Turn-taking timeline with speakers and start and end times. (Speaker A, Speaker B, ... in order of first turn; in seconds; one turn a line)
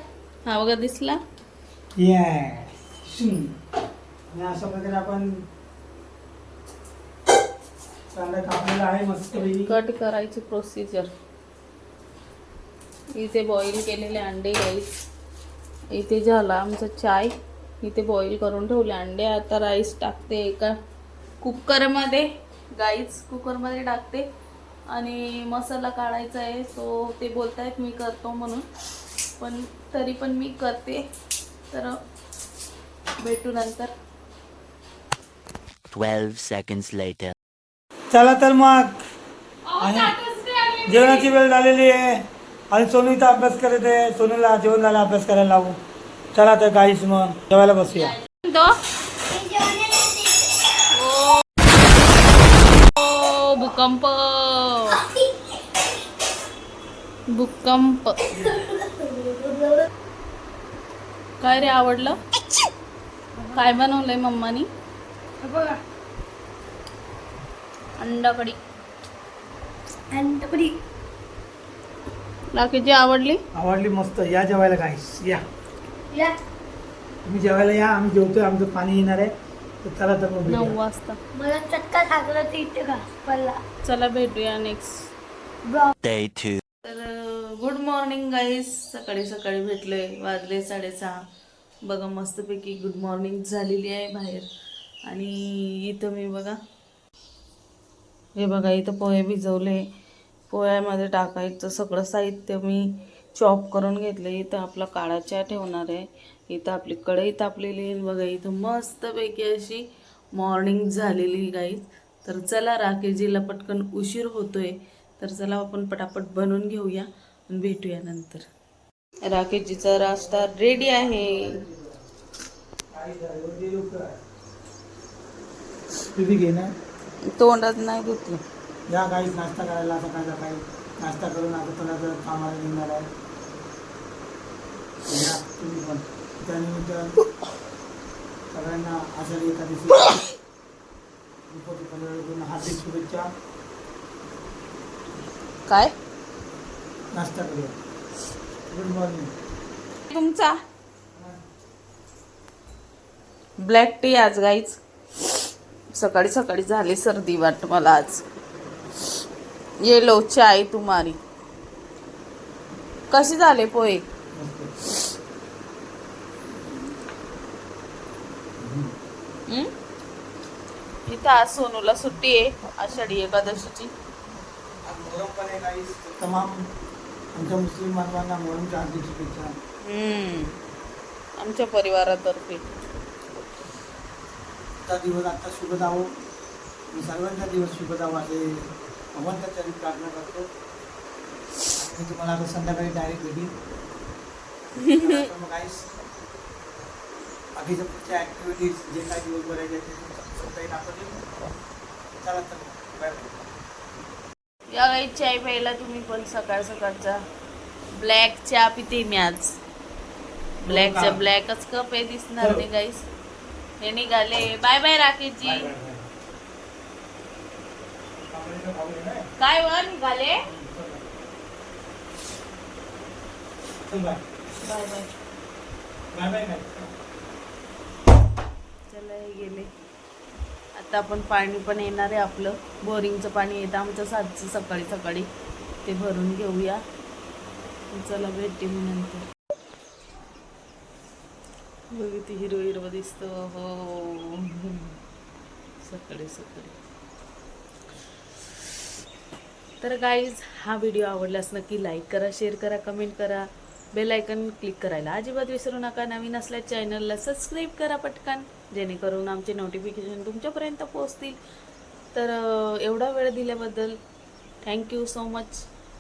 Speaker A: 0.5-1.2
Speaker B: 2.0-3.5
Speaker B: 4.3-5.4
Speaker B: 8.1-9.8
Speaker A: 9.7-11.1
Speaker A: 13.1-14.9
Speaker A: 15.9-20.8
Speaker A: 21.4-24.3
Speaker A: 24.9-28.7
Speaker A: 29.4-31.0
Speaker A: 31.7-32.0
Speaker A: 33.2-33.9
Speaker C: 35.9-37.3
Speaker B: 38.1-39.0
Speaker A: 39.7-41.3
Speaker B: 39.8-40.1
Speaker B: 40.9-45.8
Speaker B: 46.4-48.2
Speaker A: 48.0-48.8
Speaker D: 49.3-50.6
Speaker A: 50.9-51.5
Speaker A: 52.9-55.0
Speaker A: 57.3-58.2
Speaker D: 58.4-59.8
Speaker A: 61.4-62.2
Speaker A: 63.5-64.7
Speaker D: 65.5-65.7
Speaker A: 68.0-68.6
Speaker D: 70.1-70.7
Speaker A: 72.5-73.4
Speaker B: 73.5-75.4
Speaker D: 76.1-76.4
Speaker B: 77.2-79.3
Speaker B: 79.8-80.8
Speaker A: 80.5-81.2
Speaker D: 81.3-83.6
Speaker A: 83.8-85.1
Speaker D: 85.7-85.9
Speaker C: 86.0-86.6
Speaker A: 86.8-91.2
Speaker A: 91.8-94.5
Speaker A: 95.1-96.6
Speaker A: 98.3-99.8
Speaker A: 100.5-118.5
Speaker A: 119.2-121.6
Speaker B: 119.9-122.0
Speaker B: 122.9-124.2
Speaker B: 126.1-126.7
Speaker A: 127.3-128.4
Speaker B: 128.9-133.1
Speaker B: 135.1-137.2
Speaker B: 138.5-140.2
Speaker B: 141.5-143.3
Speaker A: 145.7-145.9
Speaker B: 147.1-147.8
Speaker B: 148.7-149.3
Speaker A: 150.1-150.6
Speaker B: 151.2-151.4
Speaker A: 153.6-154.8
Speaker A: 155.9-158.2
Speaker A: 159.8-161.2
Speaker A: 163.1-164.0
Speaker B: 164.3-164.7
Speaker B: 168.6-168.9
Speaker A: 171.1-173.9
Speaker B: 174.8-176.6
Speaker B: 177.3-179.6
Speaker A: 179.8-180.6
Speaker A: 181.4-182.7
Speaker B: 184.9-186.1
Speaker B: 186.9-190.5
Speaker B: 191.8-193.5
Speaker B: 194.8-195.9
Speaker A: 194.8-195.3
Speaker B: 197.6-201.2
Speaker B: 202.2-203.4
Speaker A: 204.7-207.2
Speaker A: 207.9-209.6
Speaker A: 210.6-213.1
Speaker B: 210.7-211.2
Speaker B: 212.4-212.7
Speaker A: 213.8-215.7
Speaker B: 215.4-216.1
Speaker B: 218.3-219.3
Speaker A: 219.4-220.4
Speaker B: 220.4-221.1
Speaker B: 223.9-224.2
Speaker A: 224.6-225.1
Speaker B: 226.1-226.9
Speaker A: 228.9-229.7
Speaker A: 230.8-235.3
Speaker A: 235.8-236.8
Speaker A: 237.9-239.3
Speaker A: 241.9-245.0
Speaker A: 245.8-246.8
Speaker A: 249.8-261.4
Speaker A: 262.1-264.0
Speaker A: 264.6-265.7